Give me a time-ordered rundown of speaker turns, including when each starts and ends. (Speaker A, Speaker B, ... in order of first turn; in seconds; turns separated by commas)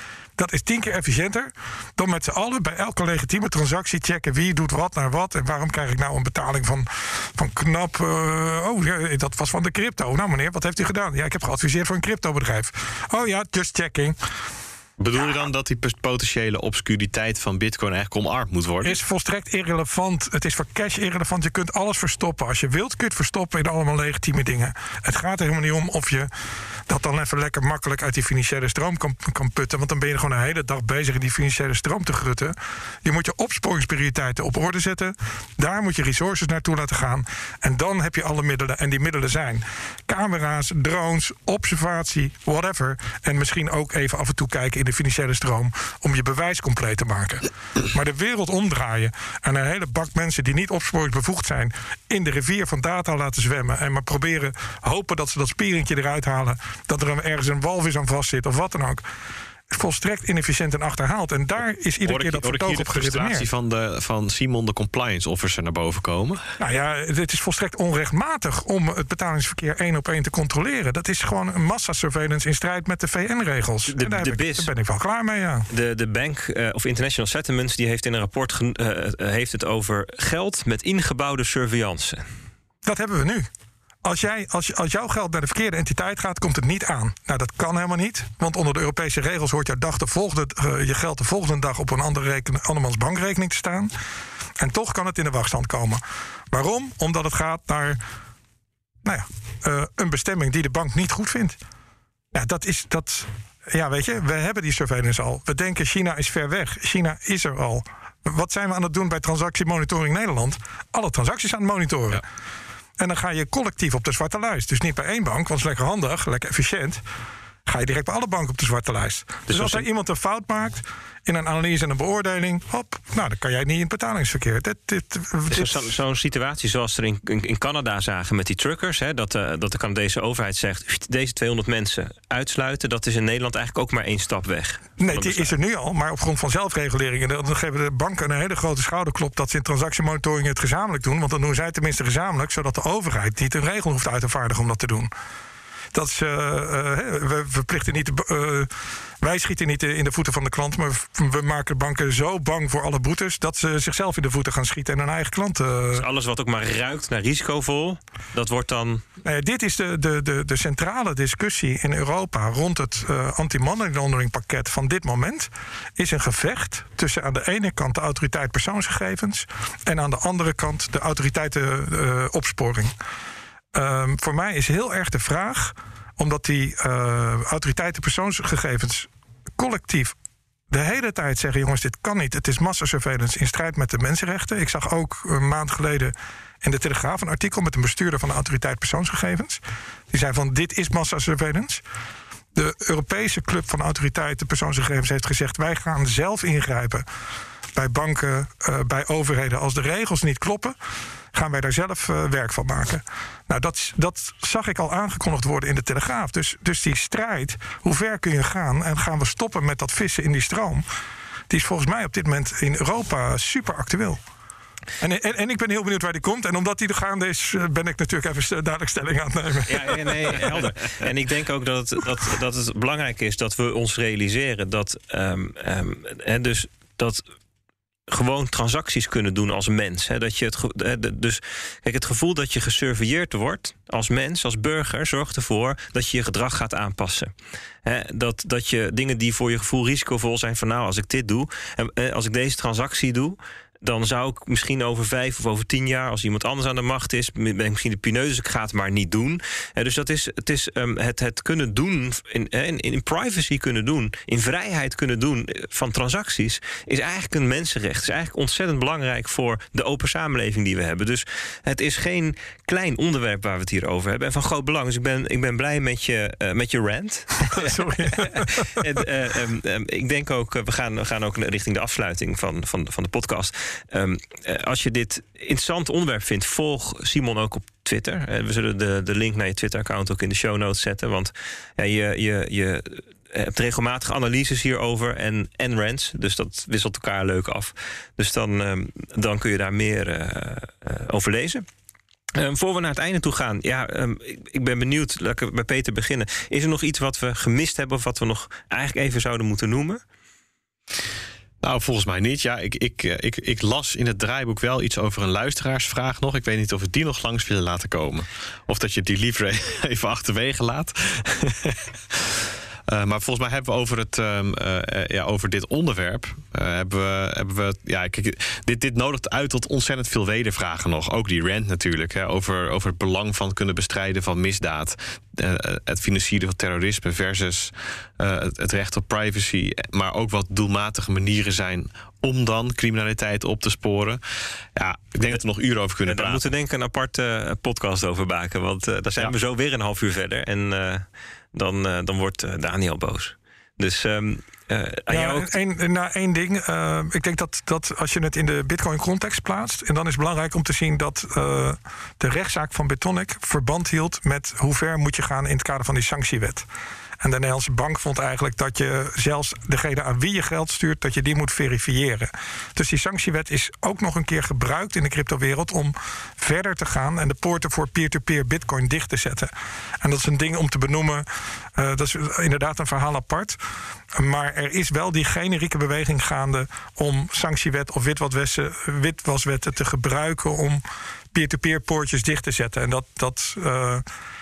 Speaker A: 0.4-14.2, Speaker B: 15.0-18.9, Speaker A: 18.8-26.3, Speaker A: 26.9-59.0, Speaker A: 59.7-63.5, Speaker B: 62.0-66.4, Speaker A: 66.6-75.7, Speaker C: 73.9-74.7, Speaker C: 75.7-82.2, Speaker A: 82.8-83.5, Speaker A: 84.0-93.9, Speaker A: 94.6-98.0, Speaker A: 99.0-101.6, Speaker A: 102.3-112.2, Speaker A: 113.0-117.0, Speaker A: 117.7-125.9, Speaker C: 119.5-119.8, Speaker C: 125.5-135.5, Speaker A: 135.0-145.1, Speaker A: 145.9-148.7, Speaker A: 149.2-156.0, Speaker C: 155.9-159.0, Speaker A: 159.2-172.9, Speaker A: 173.7-180.2, Speaker A: 180.7-191.8, Speaker A: 192.5-197.0, Speaker A: 197.7-200.8, Speaker A: 201.3-210.8, Speaker A: 211.5-214.2, Speaker A: 215.0-220.5, Speaker C: 219.7-227.2, Speaker C: 228.1-237.3, Speaker C: 237.8-291.6, Speaker A: 267.5-268.8, Speaker C: 292.3-300.0, Speaker B: 301.6-334.2, Speaker B: 334.8-336.4, Speaker C: 336.1-345.5, Speaker A: 345.1-356.6, Speaker A: 357.2-373.6, Speaker A: 374.1-384.0